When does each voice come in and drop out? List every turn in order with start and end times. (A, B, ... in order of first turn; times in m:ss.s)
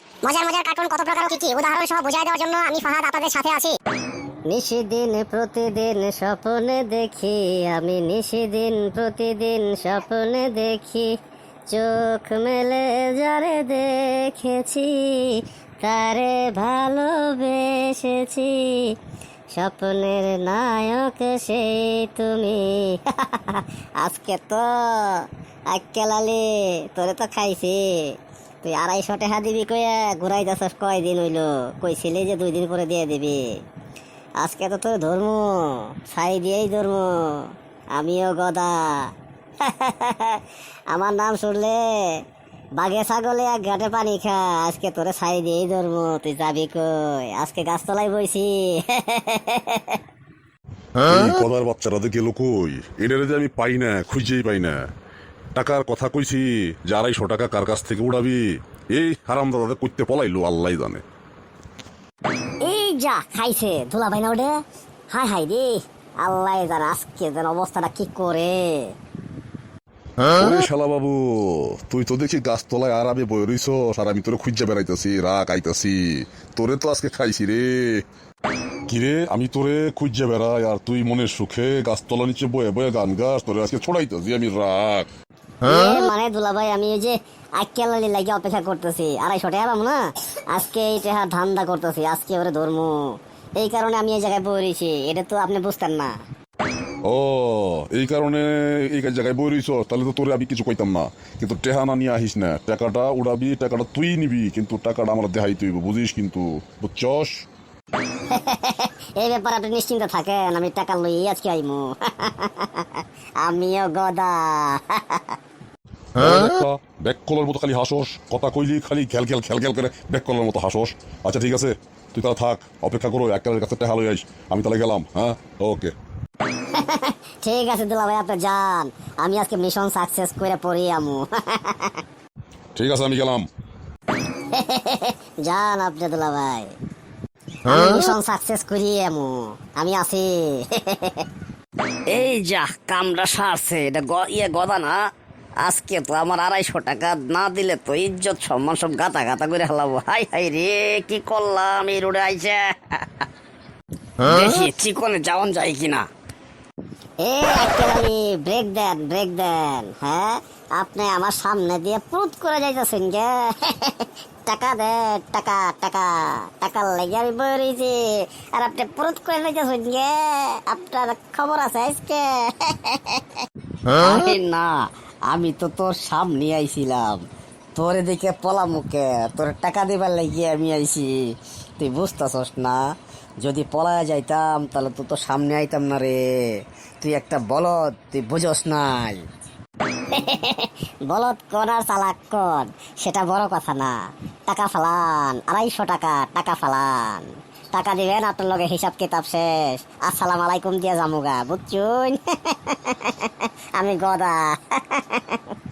0:00.2-0:03.8 A
0:04.4-0:11.1 B
0:11.7-0:18.9 B
0:19.5-0:28.0 B
0:28.6-0:33.4 B
0:34.4-0:40.4 B
0:40.9-0:42.2 B
0:42.8-0:50.0 B
0:51.0-0:54.8 C
0:55.5-1:01.0 C
1:02.6-1:04.6 B
1:05.1-1:08.9 B
1:10.2-1:18.0 C
1:18.9-1:25.1 C
1:25.6-1:36.1 B
1:37.0-1:47.4 C
1:48.3-1:55.3 B
1:56.2-2:05.9 C
2:06.6-2:12.0 B
2:12.8-2:13.5 C
2:14.4-2:16.7 B
2:17.6-2:21.2 B
2:22.0-2:25.0 D
2:25.6-2:33.1 D
2:34.2-2:36.1 D
2:37.2-2:53.4 B
2:53.9-2:57.2 D
2:57.7-3:01.2 D
3:01.8-3:02.8 D
3:03.4-3:06.4 D
3:07.0-3:09.2 D
3:10.1-3:25.4 B